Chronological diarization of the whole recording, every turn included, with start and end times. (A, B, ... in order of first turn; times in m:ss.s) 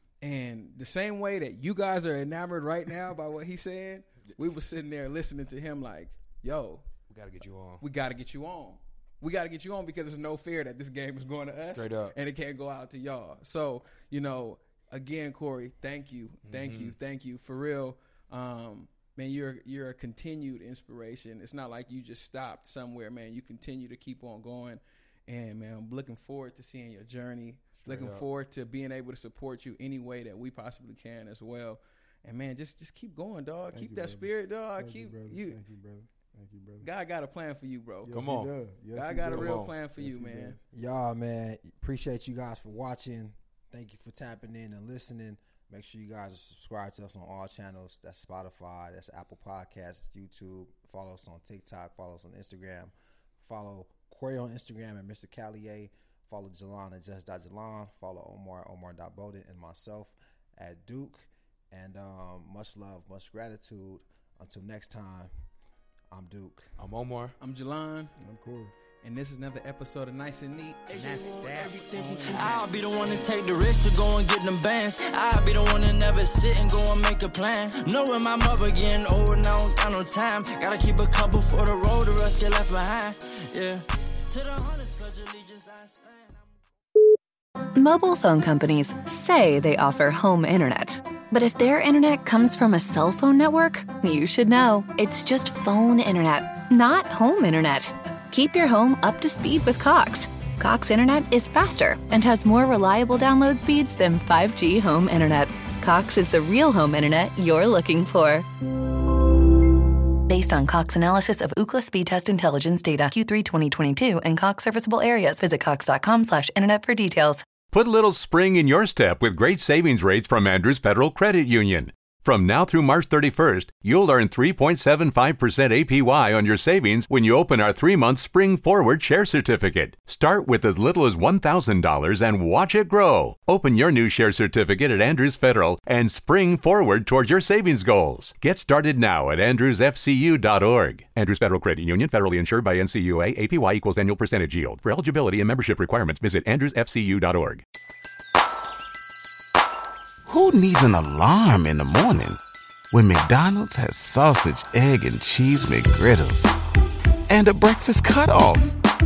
0:00.2-0:06.9 A
0:07.1-0:07.8 B
0:07.8-0:35.6 A
0:11.7-0:12.2 B
0:16.4-0:17.0 B
0:27.8-0:28.2 B
0:33.7-0:36.9 C
0:36.8-0:38.2 A
0:38.0-0:40.6 C
0:38.1-0:38.6 B
0:38.9-0:40.6 A
0:39.3-0:39.7 B
0:40.7-1:05.3 D
1:06.1-1:06.7 D
1:06.8-1:07.4 B
1:07.4-1:08.1 A
1:08.2-1:08.7 C
1:09.0-1:13.3 A
1:11.0-1:26.5 E
1:11.3-1:12.5 D
1:27.8-1:48.5 F
1:50.3-1:57.6 F
1:57.7-2:27.6 G
2:30.3-2:32.4 H
2:32.9-2:36.5 H
2:37.3-2:38.7 H